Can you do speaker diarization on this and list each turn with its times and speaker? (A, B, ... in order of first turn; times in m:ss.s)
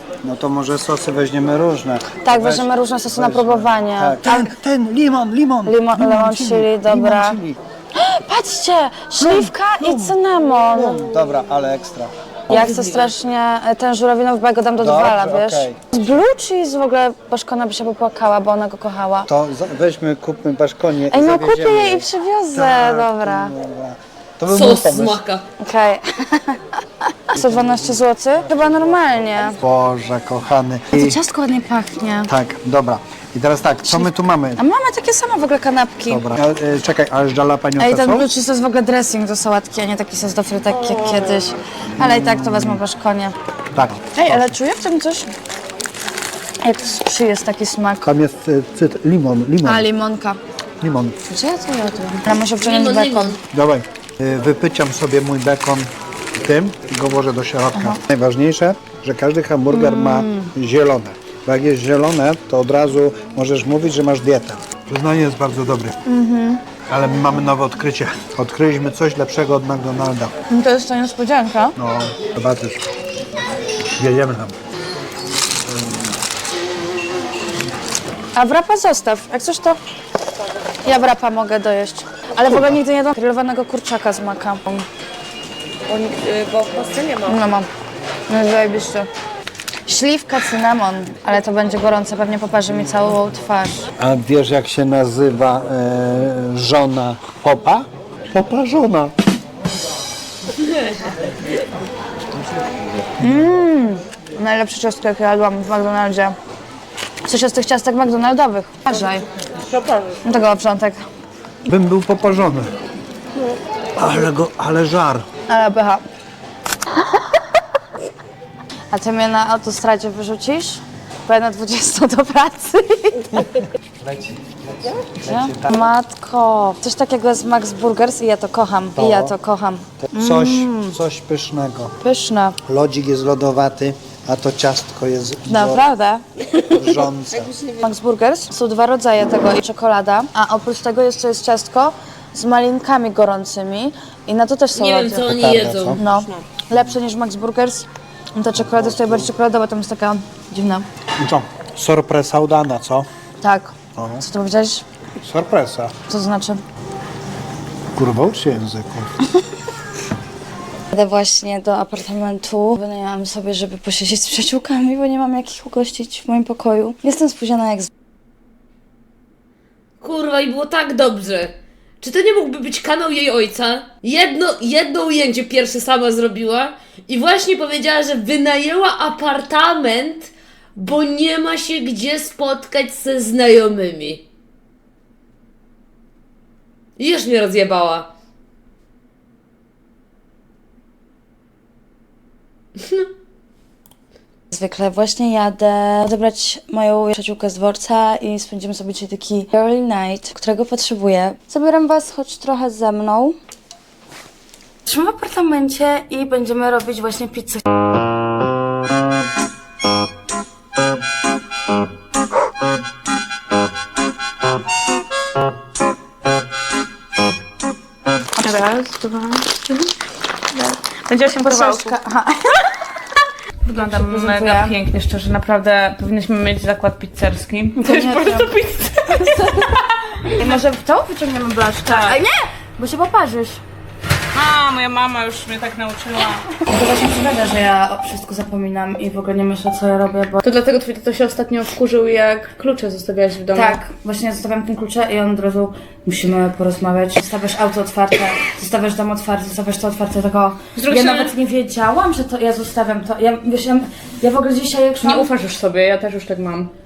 0:00.2-0:07.6 A
0:02.2-0:04.5 B
0:05.6-0:07.4 B
0:08.0-0:11.0 B
0:09.2-0:10.2 A
0:10.7-0:12.6 A
0:12.5-0:19.3 B
0:12.5-0:13.1 C
0:14.8-0:15.8 A
0:19.3-0:25.2 A
0:21.1-0:23.5 B
0:24.5-0:25.4 C
0:25.6-0:26.6 B
0:27.3-0:29.6 B
0:27.4-0:27.8 A
0:29.6-0:31.2 A
0:30.9-0:32.3 B
0:32.3-0:34.6 A
0:33.9-0:36.2 B
0:36.1-0:38.4 A
0:37.8-0:43.4 B
0:42.0-0:42.8 A
0:43.7-0:44.6 A
0:44.2-0:45.3 B
0:46.6-0:48.0 B
0:48.0-0:49.8 A
0:49.7-0:50.4 B
0:50.8-0:51.2 A
0:51.3-0:53.4 B
0:52.6-0:53.4 C
0:53.5-1:06.0 A
0:59.7-1:00.5 B
1:06.1-1:06.6 B
1:06.9-1:10.3 A
1:10.5-1:11.8 B
1:11.8-1:12.8 A
1:14.0-1:14.6 A
1:18.4-1:19.8 B
1:20.8-1:24.9 B
1:25.9-1:27.4 D
1:27.3-1:27.7 B
1:28.3-1:29.1 B
1:29.9-1:33.9 B
1:34.0-1:39.2 A
1:43.2-1:46.4 B
1:47.3-1:49.3 B
1:50.2-1:51.0 B
1:51.6-1:52.7 A
1:54.0-1:55.3 A
1:55.5-1:56.0 B
1:58.9-2:03.5 B
2:04.1-2:05.7 A
2:05.2-2:10.9 B
2:09.0-2:09.3 A
2:10.0-2:12.0 A
2:12.0-2:12.6 B
2:12.6-2:15.8 A
2:15.5-2:16.2 B
2:16.6-2:17.5 A
2:17.7-2:25.3 B
2:24.7-2:26.0 C
2:25.3-2:26.0 A
2:26.0-2:30.9 B
2:28.6-2:29.3 A
2:31.2-2:33.1 A
2:33.4-2:34.8 B
2:34.0-2:34.2 A
2:35.2-2:36.0 A
2:36.1-2:36.6 B
2:38.0-2:39.2 A
2:40.9-2:47.9 B
2:50.0-3:04.2 C
3:07.0-3:08.1 C
3:14.5-3:23.4 B
3:24.9-3:27.6 B
3:38.4-3:39.9 D
3:40.9-3:42.0 D
3:41.3-3:42.9 B
3:43.7-3:50.6 D
3:43.7-3:44.8 B
3:47.8-3:48.6 B
3:49.2-3:49.5 B
3:50.3-3:53.6 B
3:51.8-3:52.2 D
3:54.3-3:56.5 D
3:56.6-4:00.4 B
4:00.4-4:03.8 D
4:03.5-4:15.3 B
4:10.8-4:11.3 D
4:15.0-4:16.7 D